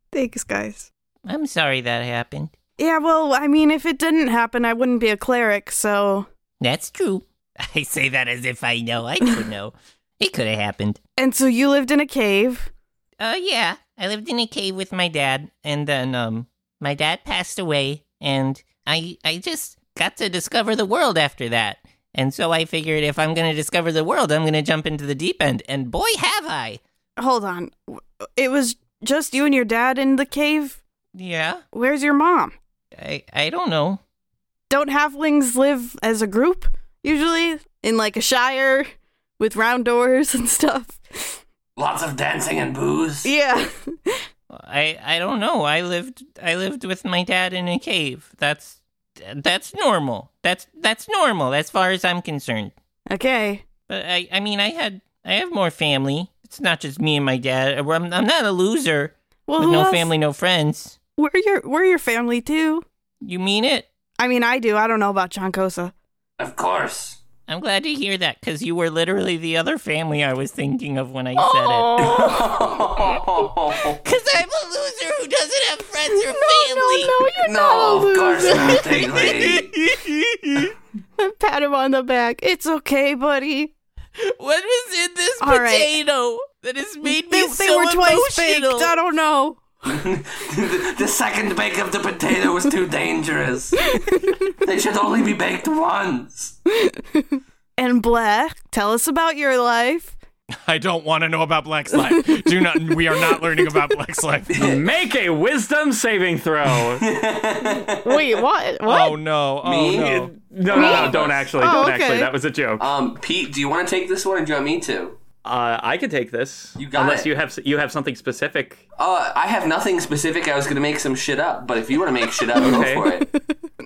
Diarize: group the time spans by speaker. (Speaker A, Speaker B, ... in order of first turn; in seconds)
Speaker A: 0.1-0.9, 2.8-6.3, 11.2-12.7, 27.2-30.8, 31.7-32.5, 34.7-38.9, 39.4-41.4, 43.2-44.2, 53.1-53.6, 59.5-60.1, 61.2-62.9, 64.2-65.9, 71.4-72.5, 76.3-79.3, 81.2-83.7, 85.4-86.0, 87.0-89.6, 93.9-94.4, 96.8-97.3, 97.8-100.2, 102.1-103.7, 107.9-109.2, 110.7-112.3
Speaker B: 1.3-2.5, 6.6-11.0, 13.2-26.8, 31.1-31.6, 33.0-34.0, 44.5-52.7, 53.9-61.0, 63.2-63.9, 67.5-72.3, 74.0-77.3, 78.5-79.5, 84.2-88.9
Speaker C: 41.8-43.3, 66.4-67.2, 72.0-74.0, 77.4-79.7, 89.8-96.6, 104.5-104.8, 106.9-108.3, 109.6-111.5, 112.8-115.2, 116.8-117.3, 119.0-123.3
Speaker D: 79.9-80.7, 100.7-104.7, 108.8-110.3
Speaker E: 104.6-107.1, 110.4-112.9, 115.5-118.8, 122.6-123.2